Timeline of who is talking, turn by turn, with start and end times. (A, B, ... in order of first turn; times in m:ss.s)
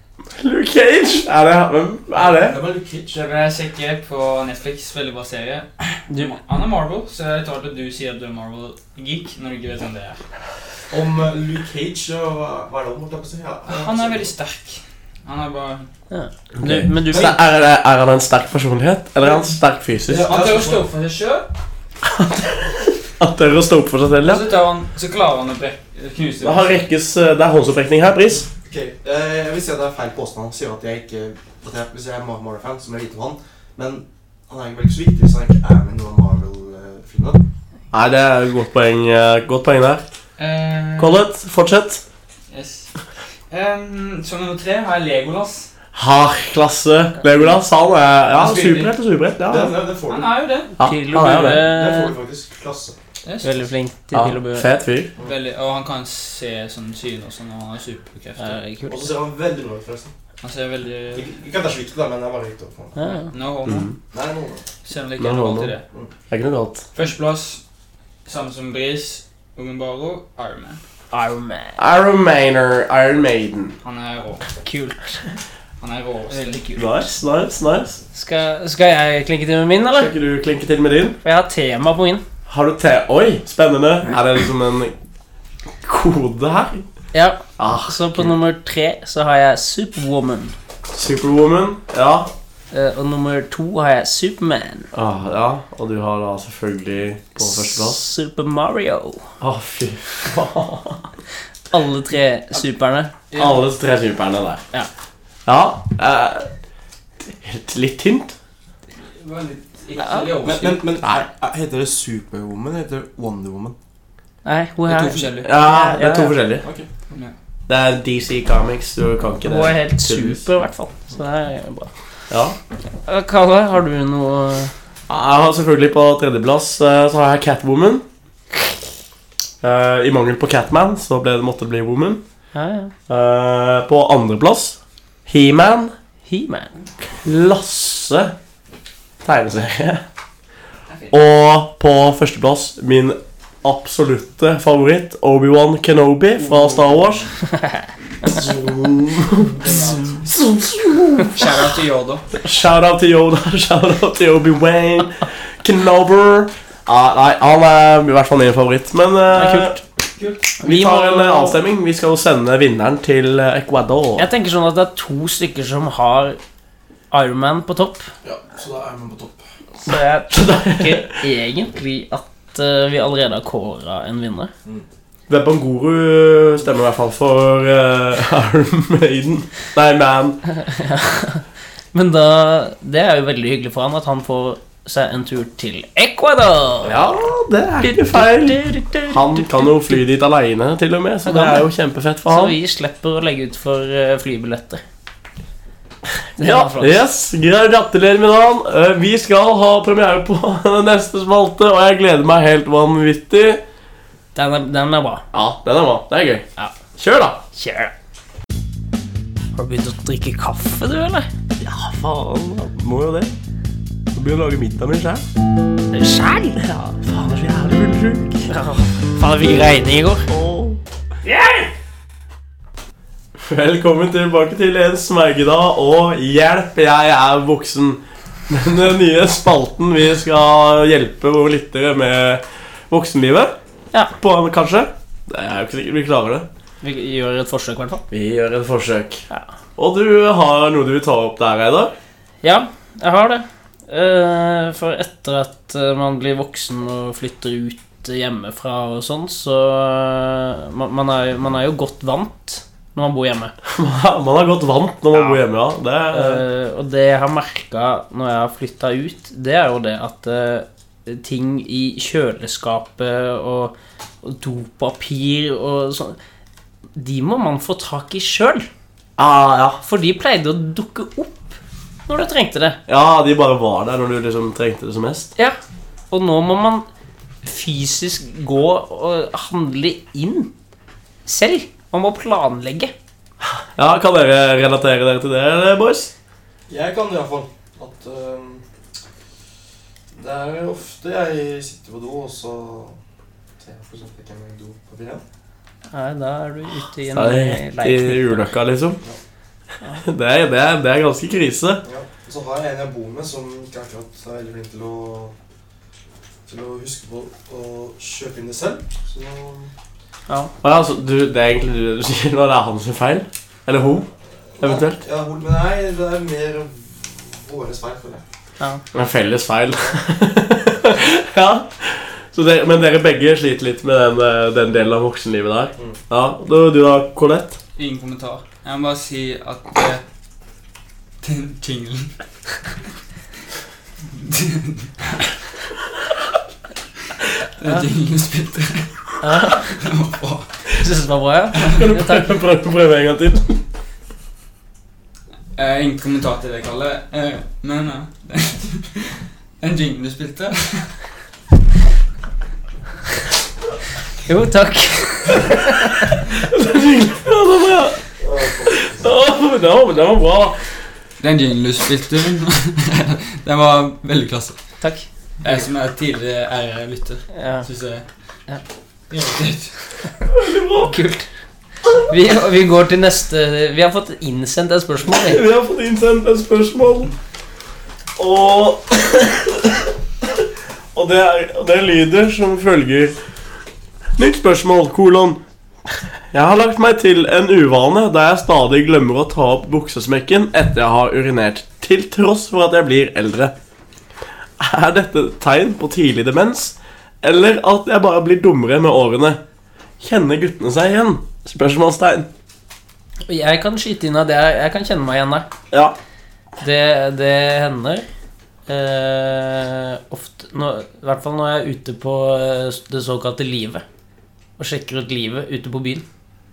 0:00.4-0:02.6 A
0:02.1-0:03.2 B
0:03.1-0:10.2 C
0:06.1-0:06.3 D
0:10.9-0:14.3 B
0:13.7-0:15.9 C
0:16.1-0:17.4 D
0:16.6-0:20.3 A
0:20.1-0:20.8 B
0:20.2-0:21.5 C
0:22.0-0:24.5 A
0:24.2-0:26.8 C
0:26.4-0:28.5 A
0:28.6-0:37.4 B
0:37.9-0:40.0 A
0:40.4-0:41.2 C
0:41.0-0:42.0 A
0:42.5-0:42.9 C
0:43.5-0:45.7 C
0:45.9-0:49.7 A
0:48.3-0:48.9 C
0:49.5-0:50.3 B
0:50.1-0:50.7 C
0:50.8-0:51.6 A
0:50.8-0:52.1 D
0:51.4-0:53.0 B
0:53.2-0:53.6 C
0:53.4-0:54.7 D
0:54.1-0:55.1 A
0:55.2-0:58.6 C
0:58.4-0:59.1 D
0:58.9-1:00.1 B
1:00.4-1:01.3 C
1:01.1-1:03.0 B
1:03.0-1:03.3 D
1:03.1-1:03.9 C
1:03.6-1:03.9 A
1:04.1-1:04.6 B
1:04.8-1:05.8 C
1:05.2-1:05.7 A
1:06.3-1:06.8 A
1:06.9-1:07.6 C
1:08.2-1:10.8 C
1:11.1-1:11.8 D
1:11.8-1:13.8 A
1:13.8-1:14.4 C
1:14.6-1:15.2 D
1:15.8-1:16.6 C
1:16.3-1:17.0 D
1:16.7-1:18.0 A
1:18.1-1:20.1 D
1:20.0-1:21.2 A
1:21.2-1:22.2 D
1:22.5-1:24.9 A
1:25.8-1:26.8 A
1:27.1-1:30.5 D
1:27.6-1:28.3 A
1:30.9-1:32.3 A
1:32.7-1:34.9 D
1:34.9-1:38.0 A
1:37.4-1:39.3 D
1:39.4-1:41.1 A
1:41.7-1:43.1 D
1:43.3-1:43.6 C
1:43.4-1:44.6 A
1:45.4-1:46.5 A
1:47.2-1:48.3 A
1:49.1-1:50.8 C
1:50.0-1:50.4 D
1:50.4-1:53.7 B
1:54.4-1:56.4 D
1:54.9-1:55.5 C
1:55.4-1:56.6 A
1:57.7-2:00.4 A
1:59.4-2:01.9 D
2:02.3-2:02.6 A
2:03.0-2:04.7 D
2:05.1-2:08.0 A
2:09.6-2:12.2 A
2:12.5-2:12.9 D
2:13.1-2:15.9 A
2:16.2-2:16.7 D
2:17.2-2:18.3 A
2:19.2-2:20.0 A
2:20.9-2:21.1 C
2:21.1-2:27.2 A
2:26.4-2:27.3 C
2:28.2-2:31.5 A
2:29.4-2:30.3 C
2:31.3-2:32.2 C
2:32.3-2:39.8 A
2:39.3-2:39.8 D
2:40.2-2:40.4 C
2:40.6-2:41.6 D
2:40.6-2:44.3 A
2:44.2-2:46.4 D
2:47.1-2:48.1 D
2:48.2-2:49.4 B
2:49.8-2:54.5 D
2:50.3-2:51.2 A
2:55.3-3:00.4 A
3:00.5-3:07.0 D
3:06.8-3:12.5 A
3:07.8-3:10.0 D
3:11.2-3:11.7 D
3:12.3-3:14.8 D
3:16.4-3:17.0 D
3:16.4-3:23.6 A
3:24.3-3:25.2 D
3:25.3-3:26.4 A
3:27.0-3:27.4 A
3:27.5-3:27.9 D
3:29.5-3:31.3 D
3:31.6-3:33.3 A
3:34.1-3:35.2 A
3:35.9-3:36.6 D
3:36.6-3:38.5 A
3:38.5-3:40.3 D
3:40.3-3:40.8 A
3:41.2-3:41.7 D
3:43.4-3:53.5 A
3:54.2-3:56.5 A
3:56.8-3:58.0 D
3:58.1-3:59.2 A
3:59.8-4:01.9 A
4:02.4-4:13.5 D
4:13.7-4:16.4 A
4:16.1-4:26.2 D
4:26.9-4:28.7 D
4:29.2-4:29.8 A
4:29.8-4:32.8 D
4:32.9-4:35.3 A
4:36.1-4:36.8 D
4:37.4-4:40.5 D
4:41.2-4:42.9 D
4:43.8-4:46.1 A
4:46.7-4:48.6 B
4:50.1-4:53.0 B
4:53.6-4:55.2 B
4:55.9-4:58.5 D
4:57.1-4:59.0 A
5:00.0-5:01.8 A
5:01.8-5:05.3 B
5:06.5-5:09.7 B
5:10.6-5:14.1 A
5:14.6-5:18.2 B
5:14.6-5:15.0 A
5:18.9-5:27.6 A
5:27.8-5:30.0 C
5:31.2-5:32.1 C
5:34.1-5:35.3 C
5:37.4-5:40.6 C
5:39.2-5:39.7 D
5:40.8-5:42.3 D
5:41.6-5:43.6 A
5:45.6-5:50.9 C
5:54.2-5:56.1 D
5:56.3-5:58.0 A
5:58.2-5:59.0 B
5:58.7-6:00.6 A
6:01.2-6:04.6 C
6:04.8-6:05.1 D
6:05.4-6:08.0 C
6:07.3-6:07.6 D
6:09.1-6:09.7 C
6:10.3-6:11.0 A
6:10.8-6:11.2 D
6:12.0-6:15.4 D
6:15.1-6:17.1 A
6:18.2-6:23.2 A
6:24.2-6:25.4 A
6:26.3-6:33.5 A
6:34.6-6:39.4 A
6:40.0-6:42.3 A
6:43.3-6:45.5 D
6:46.6-6:48.0 D
6:48.7-6:53.8 D
6:54.6-6:56.0 D